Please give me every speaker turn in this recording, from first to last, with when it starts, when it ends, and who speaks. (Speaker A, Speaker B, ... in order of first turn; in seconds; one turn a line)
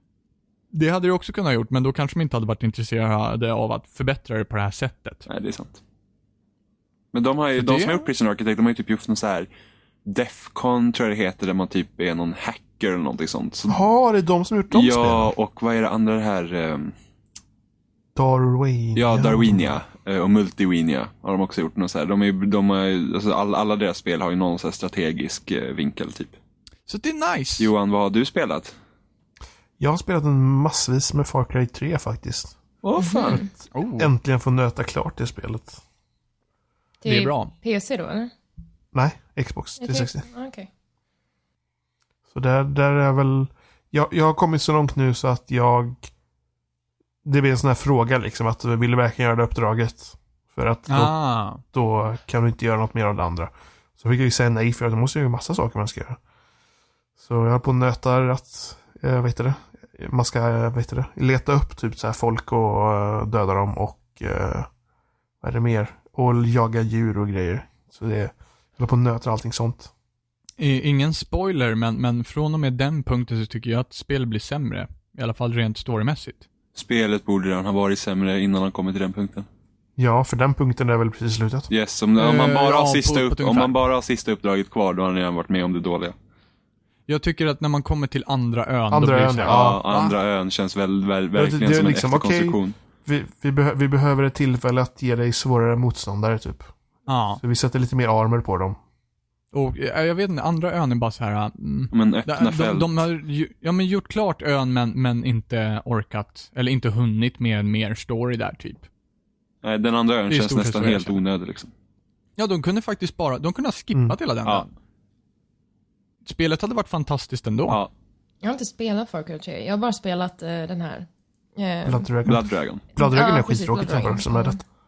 Speaker A: 0.7-5.2
Speaker B: 5.3-5.8
Speaker B: 7.1-9.5
Speaker A: 7.5-8.1
Speaker B: 10.1-13.8
Speaker C: 13.7-15.3
Speaker B: 14.7-16.9
Speaker C: 18.1-19.8
Speaker B: 18.9-26.4
Speaker A: 26.9-27.7
Speaker B: 27.6-28.7
Speaker C: 29.8-32.5
Speaker B: 32.8-33.4
Speaker D: 33.0-33.5
Speaker C: 33.3-35.8
Speaker A: 33.7-34.1
Speaker D: 37.0-38.3
Speaker A: 37.0-37.5
Speaker C: 38.9-40.2
Speaker D: 39.8-40.7
Speaker C: 42.3-46.1
Speaker C: 47.2-51.1
Speaker A: 50.9-51.6
Speaker C: 51.7-56.2
Speaker C: 57.2-64.7
Speaker C: 65.4-69.9
Speaker A: 70.6-76.5
Speaker B: 76.7-79.5
Speaker C: 80.0-81.7
Speaker B: 81.7-86.2
Speaker A: 82.2-83.8
Speaker A: 87.1-90.2
Speaker C: 88.9-89.8
Speaker B: 89.4-92.7
Speaker C: 91.3-96.7
Speaker A: 97.1-97.4
Speaker C: 97.4-98.8
Speaker A: 99.5-108.8
Speaker B: 101.9-102.9
Speaker B: 109.6-111.7
Speaker A: 110.3-111.2
Speaker A: 112.4-114.7
Speaker A: 116.2-117.8
Speaker D: 118.4-122.1
Speaker C: 121.8-124.6
Speaker B: 122.2-122.8
Speaker D: 123.0-124.6